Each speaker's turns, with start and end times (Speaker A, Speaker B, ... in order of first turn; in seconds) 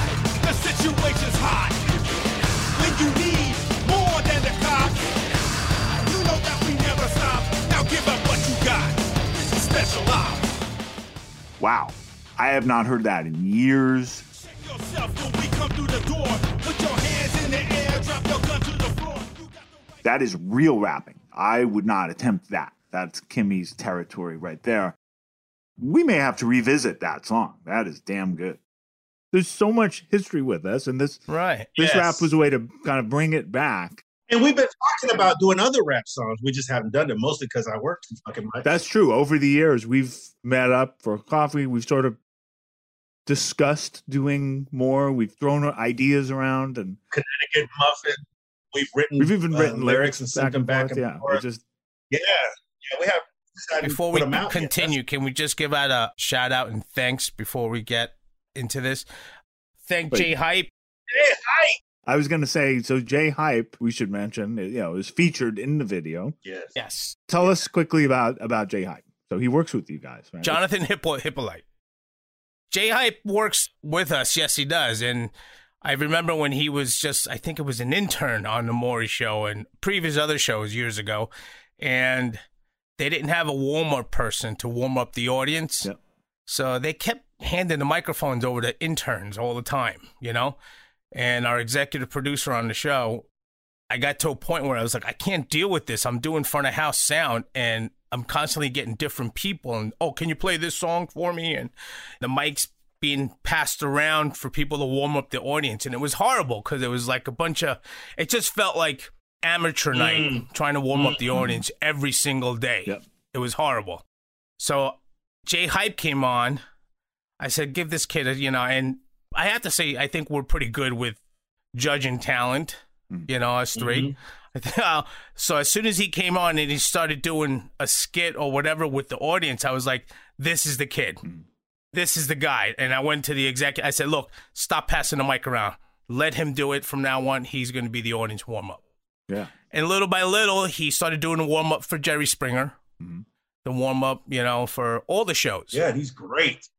Speaker A: 0.4-1.9, 2.7-5.1, 6.0-10.5, 14.5-19.5
Speaker B: 11.6-14.2, 20.0-24.9, 25.8-28.6, 29.3-31.2, 31.8-34.0, 38.6-42.2, 43.2-47.0, 49.2-51.6, 62.0-66.4, 67.3-70.6, 111.4-111.6, 143.0-143.2
Speaker C: 31.3-31.7, 53.8-59.0, 59.8-60.7, 66.8-67.6, 70.4-71.6, 72.7-75.3, 75.8-82.4, 83.0-85.9, 86.5-90.6, 91.1-93.2, 93.9-114.0, 114.6-116.6, 117.4-121.2, 121.7-131.2, 131.9-138.8, 139.7-142.8, 143.6-145.9
Speaker D: 31.8-32.2, 34.3-38.7, 47.1-48.2, 48.7-51.4, 52.1-54.9, 61.1-61.7, 66.4-66.7, 109.9-110.4, 110.9-111.4, 123.8-124.1, 145.8-146.6